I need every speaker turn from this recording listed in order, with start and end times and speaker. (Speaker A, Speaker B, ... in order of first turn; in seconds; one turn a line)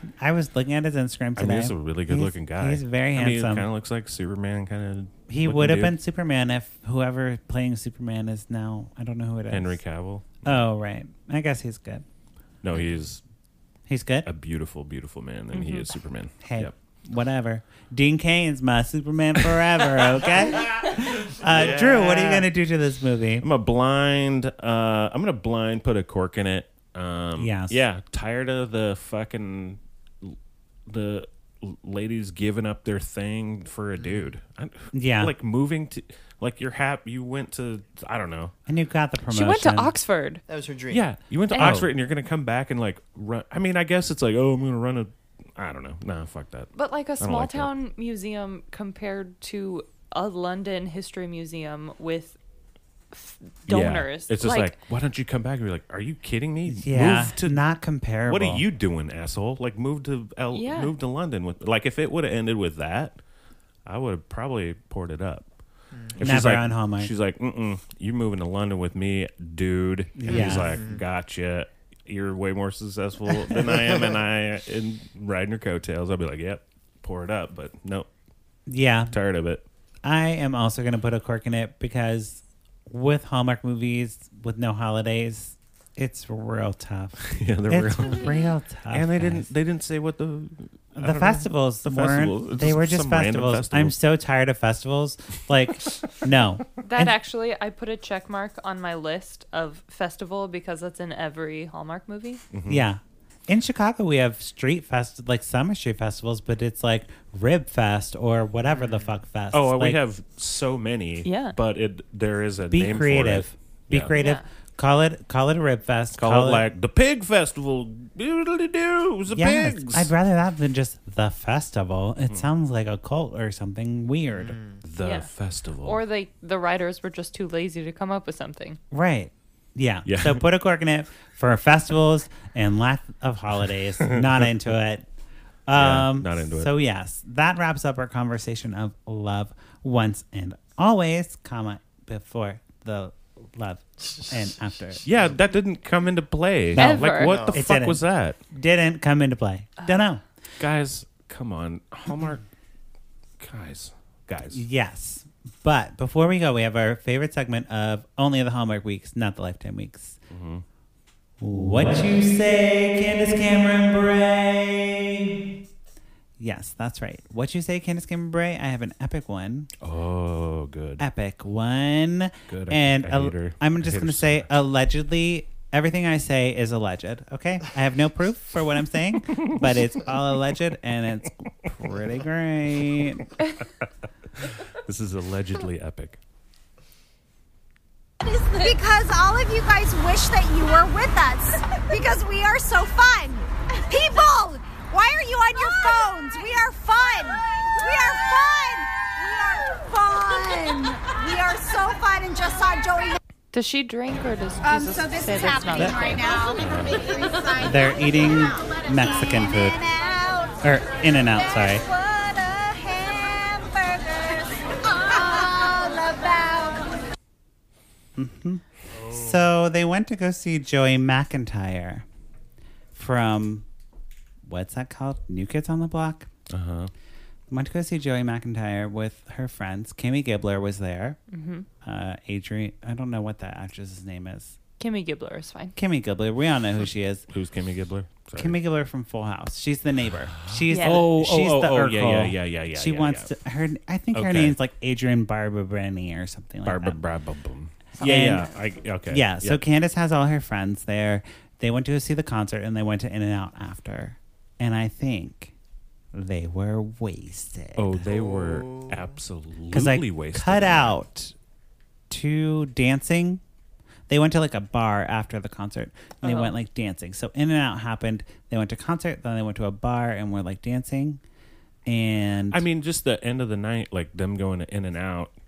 Speaker A: 0.2-3.7
Speaker B: 1.4-5.9
Speaker A: 5.3-9.8
Speaker B: 9.5-10.6
Speaker A: 10.4-12.0
Speaker B: 12.6-13.2
Speaker A: 13.9-14.3
Speaker B: 14.2-16.7
Speaker C: 15.5-15.9
Speaker A: 16.4-23.5
Speaker B: 20.5-22.5
Speaker B: 23.4-30.4
Speaker A: 27.4-27.8
Speaker B: 30.9-38.5
Speaker D: 34.0-34.4
Speaker A: 34.9-35.3
Speaker A: 38.7-39.9
Speaker C: 39.3-40.4
Speaker D: 40.5-41.0
Speaker B: 40.9-47.7
Speaker C: 41.5-41.8
Speaker A: 41.6-41.9
Speaker C: 46.7-52.4
Speaker C: 53.1-54.8
Speaker B: 53.7-57.6
Speaker A: 56.7-58.6
Speaker B: 58.3-63.2
Speaker C: 60.5-60.9
Speaker B: 63.9-65.5
Speaker D: 65.9-66.2
Speaker B: 66.1-78.1
Speaker A: 66.2-67.1
Speaker A: 70.2-70.7
Speaker D: 70.3-71.0
Speaker A: 78.7-79.1
Speaker B: 79.1-79.6
Speaker A: 80.0-89.5
Speaker B: 87.2-88.3
Speaker B: 88.9-93.9
Speaker A: 91.0-97.1
Speaker C: 96.8-102.4
Speaker B: 102.5-102.8
Speaker A: 102.7-110.0
Speaker D: 108.7-109.2
Speaker B: 109.5-114.1
Speaker C: 111.2-111.5
Speaker A: 112.7-116.7
Speaker C: 114.1-114.4
Speaker B: 116.2-120.1
Speaker A: 119.3-124.6
Speaker D: 124.3-124.8
Speaker B: 124.8-126.0
Speaker C: 125.0-125.3
Speaker C: 125.8-128.8
Speaker A: 128.9-135.1
Speaker B: 130.1-130.4
Speaker A: 135.7-145.1
Speaker B: 135.7-136.7
Speaker D: 144.0-145.2
Speaker B: 145.0-148.4
Speaker A: 146.7-150.2
Speaker C: 146.8-147.3
Speaker D: 147.2-147.6
Speaker B: 150.6-152.4
Speaker B: 153.4-154.6
Speaker A: 154.5-160.2
Speaker B: 160.3-160.6
Speaker A: 161.4-165.4
Speaker A: 166.4-169.7
Speaker B: 169.8-171.0
Speaker A: 171.0-183.3
Speaker B: 172.5-174.5
Speaker B: 179.4-179.8
Speaker B: 184.4-186.2
Speaker E: 188.2-203.2
Speaker C: 203.5-206.3
Speaker E: 204.6-210.6
Speaker A: 205.8-206.1
Speaker B: 206.6-207.1
Speaker A: 207.6-209.8
Speaker A: 210.6-211.8
Speaker E: 211.3-216.9
Speaker A: 218.2-222.1
Speaker A: 222.9-223.7
Speaker A: 224.4-226.3
Speaker B: 226.5-226.9
Speaker A: 227.5-231.2
Speaker C: 231.3-231.7
Speaker A: 231.8-234.6
Speaker C: 234.8-235.8
Speaker A: 235.8-237.2
Speaker B: 237.3-238.6
Speaker A: 238.3-247.0
Speaker B: 240.3-243.3
Speaker C: 240.7-241.0
Speaker B: 244.1-244.6
Speaker B: 246.6-249.6
Speaker A: 248.0-248.5
Speaker A: 249.1-255.5
Speaker A: 256.1-258.0
Speaker B: 257.8-261.0
Speaker D: 258.1-259.2
Speaker A: 259.7-261.3
Speaker A: 262.1-263.4
Speaker A: 264.1-271.2
Speaker C: 266.2-266.5
Speaker A: 271.9-272.6
Speaker B: 272.5-275.3